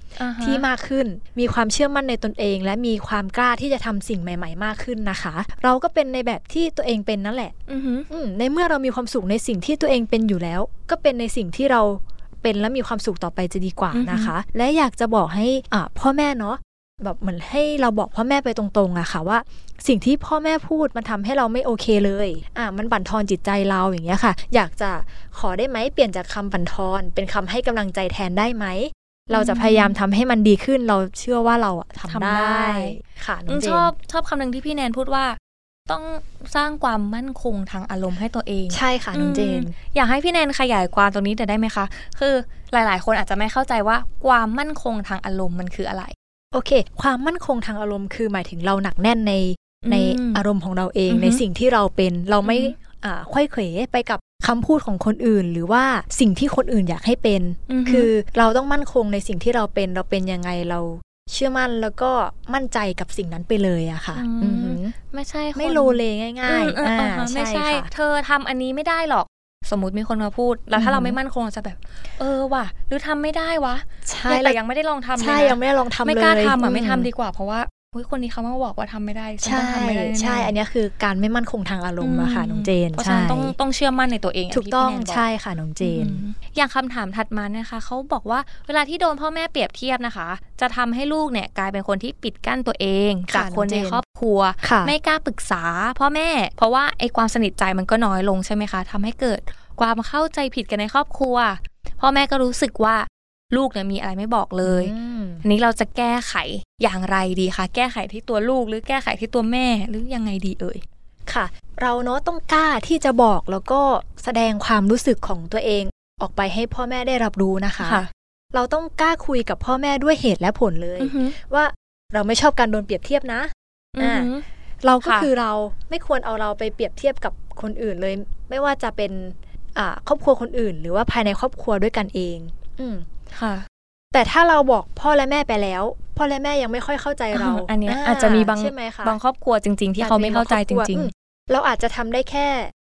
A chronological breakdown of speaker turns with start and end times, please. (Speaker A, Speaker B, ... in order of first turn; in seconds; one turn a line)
Speaker A: 0.1-0.6
Speaker B: 0.4-7.5
Speaker A: 7.7-8.1
Speaker B: 8.1-33.9
Speaker A: 13.9-14.3
Speaker A: 29.3-30.0
Speaker A: 32.1-46.1
Speaker B: 38.7-39.7
Speaker B: 46.5-64.9
Speaker A: 49.8-50.4
Speaker A: 51.1-51.4
Speaker A: 52.4-52.7
Speaker A: 57.7-58.1
Speaker A: 64.1-80.5
Speaker B: 65.5-67.9
Speaker B: 70.8-71.2
Speaker B: 74.0-74.6
Speaker B: 75.2-77.1
Speaker B: 79.4-83.5
Speaker A: 82.0-85.2
Speaker B: 84.5-86.2
Speaker A: 85.8-104.9
Speaker B: 93.3-94.0
Speaker B: 94.6-94.9
Speaker B: 104.6-105.4
Speaker A: 105.4-110.8
Speaker B: 111.3-124.3
Speaker A: 117.8-118.1
Speaker A: 121.0-121.3
Speaker A: 123.9-124.4
Speaker B: 124.8-133.1
Speaker A: 125.0-125.3
Speaker A: 133.3-133.7
Speaker B: 134.1-139.2
Speaker A: 137.3-141.1
Speaker B: 140.0-142.7